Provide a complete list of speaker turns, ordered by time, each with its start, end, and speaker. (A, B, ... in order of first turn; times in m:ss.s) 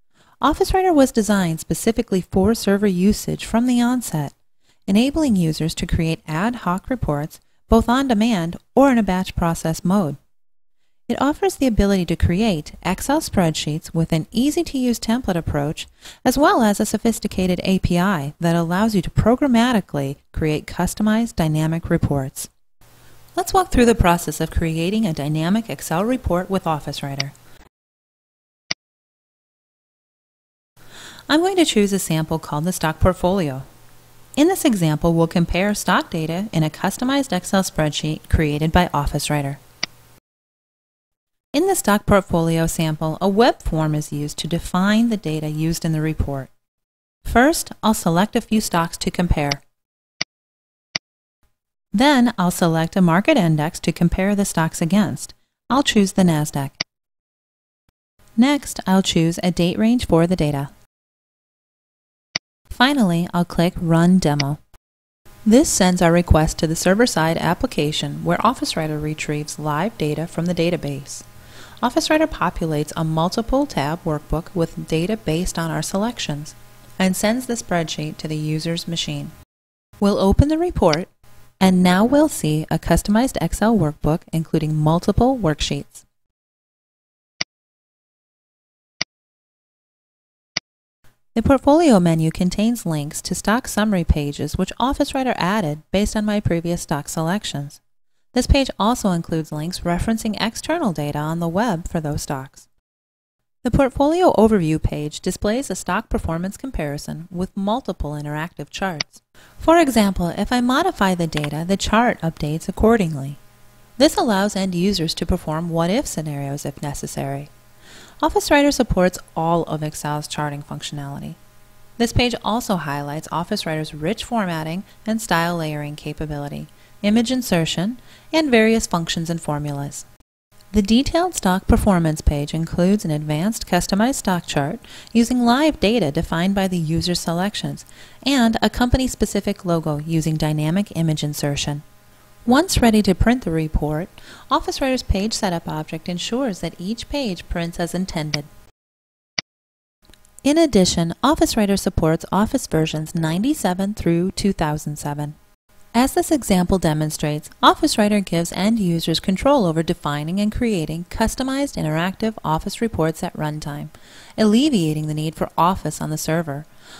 0:00.4-0:04.3 A
0:04.9-0:10.2 A
0:11.1-0:22.5 A
0:23.3-0:27.3 A
0:31.3-0:33.6 A
0:34.4-0:39.6 A
0:41.5-0:46.5 A
0:47.2-0:49.6 A
0:51.9-0:56.8 A
0:58.4-1:00.7 A
1:02.7-1:04.6 A
1:05.4-1:11.2 A
1:11.8-1:19.3 A
1:20.0-1:21.1 A
1:21.6-1:26.0 A
1:31.3-1:37.8 A
1:38.3-1:42.7 A
1:43.6-1:53.4 A
1:54.0-1:57.5 A
1:58.2-2:01.4 A
2:02.0-2:10.1 A
2:10.7-2:21.8 A
2:22.4-2:28.5 A
2:30.4-2:35.4 A
2:35.9-2:46.7 A